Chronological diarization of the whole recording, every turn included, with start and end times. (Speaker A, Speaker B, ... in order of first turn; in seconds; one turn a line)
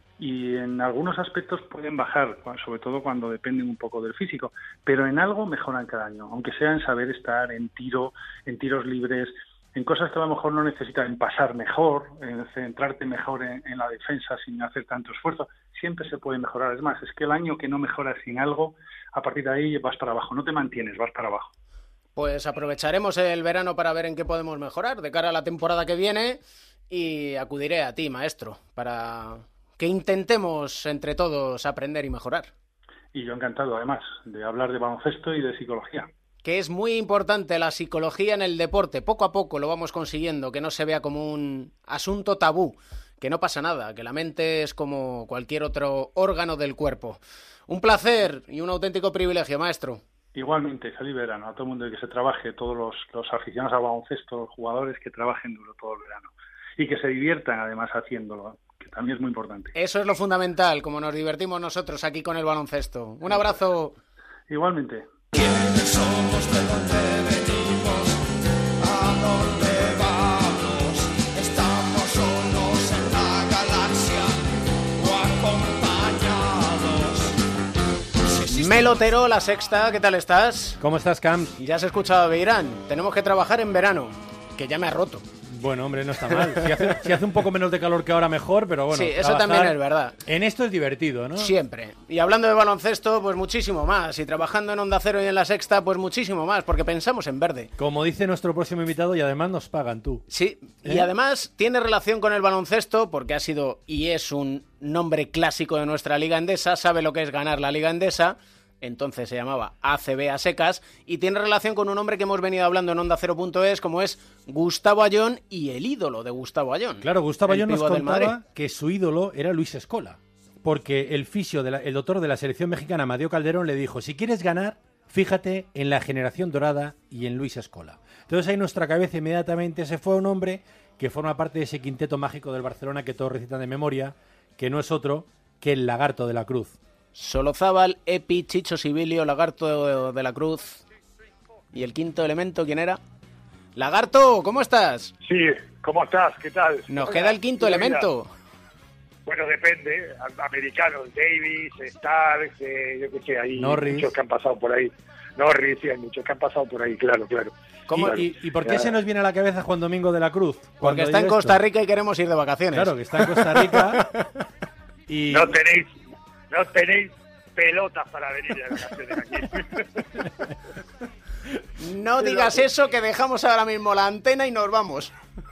Speaker A: 0.2-21.5
Speaker B: 22.1-32.5
Speaker A: 33.1-36.1
Speaker B: 36.4-50.0
Speaker A: 50.3-59.7
Speaker B: 59.7-64.0
Speaker A: 64.5-65.1
Speaker C: 65.3-68.2
Speaker C: 68.8-74.4
Speaker C: 75.0-77.3
Speaker C: 78.3-78.8
Speaker B: 78.5-80.8
Speaker D: 80.8-81.5
Speaker B: 81.6-85.2
Speaker D: 85.5-91.5
Speaker B: 88.9-90.2
Speaker B: 91.4-97.7
Speaker D: 97.8-100.2
Speaker B: 100.3-118.3
Speaker D: 117.0-136.8
Speaker B: 137.1-140.8
Speaker B: 141.7-143.0
Speaker B: 143.8-145.1
Speaker E: 145.2-148.1
Speaker B: 146.9-148.3
Speaker E: 149.2-159.0
Speaker D: 153.6-154.1
Speaker D: 157.9-161.6
Speaker B: 160.8-162.9
Speaker D: 162.7-164.1
Speaker D: 165.1-165.6
Speaker E: 165.3-170.1
Speaker B: 171.8-175.1